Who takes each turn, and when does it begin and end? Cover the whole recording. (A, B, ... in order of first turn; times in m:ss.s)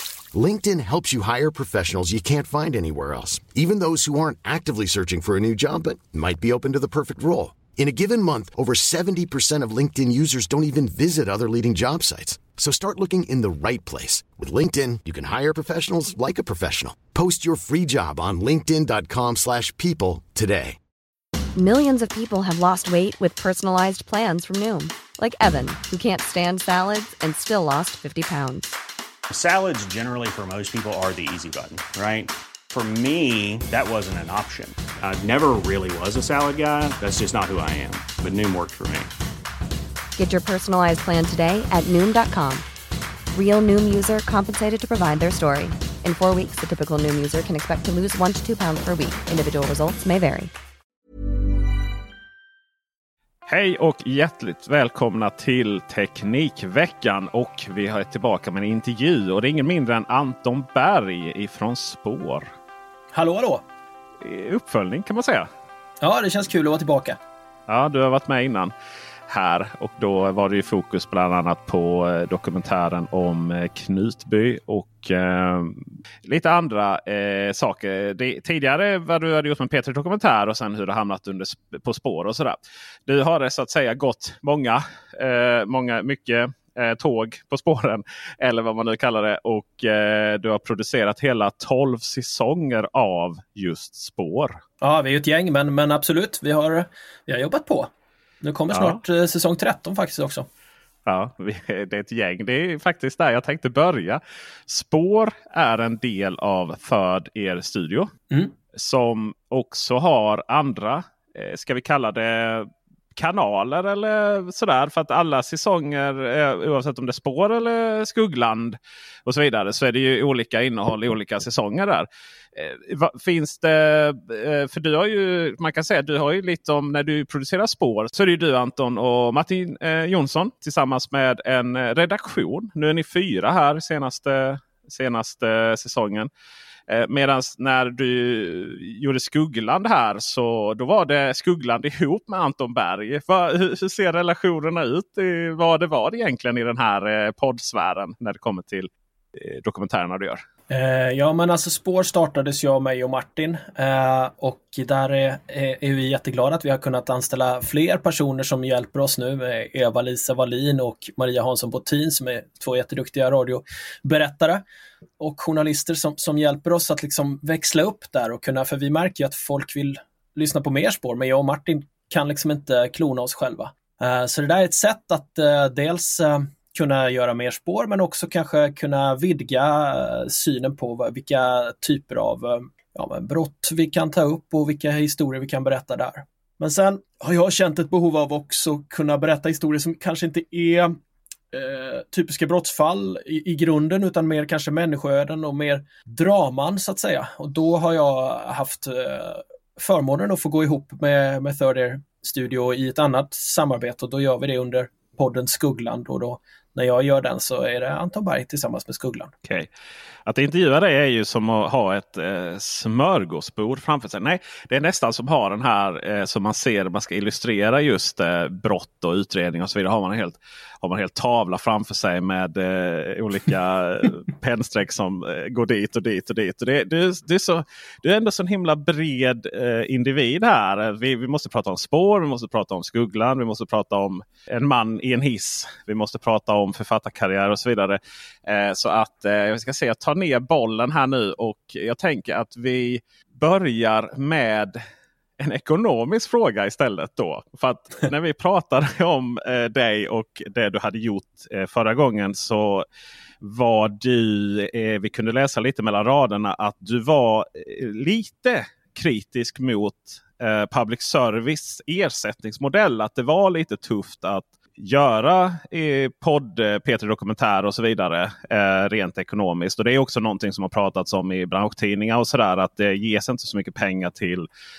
0:00.3-0:20.8 A
0:21.6-0:28.7 B
0:29.3-0:39.1 C
0:40.2-0:42.6 B
0:43.3-0:50.5 B
0:53.5-1:02.5 D
1:03.1-1:03.6 E
1:04.2-1:05.5 D
1:06.0-1:07.2 E
1:07.7-1:08.7 D
1:09.3-1:34.6 D
1:34.8-1:37.9 E
1:38.4-1:40.5 E
1:38.7-1:39.0 D
1:41.1-1:48.1 D
1:48.7-2:16.3 D
2:16.9-2:30.4 D
2:30.7-2:44.6 E
2:45.2-3:11.0 E
3:11.5-3:29.3 E
3:30.3-4:04.8 D
4:05.4-4:12.8 D
4:13.4-4:34.5 D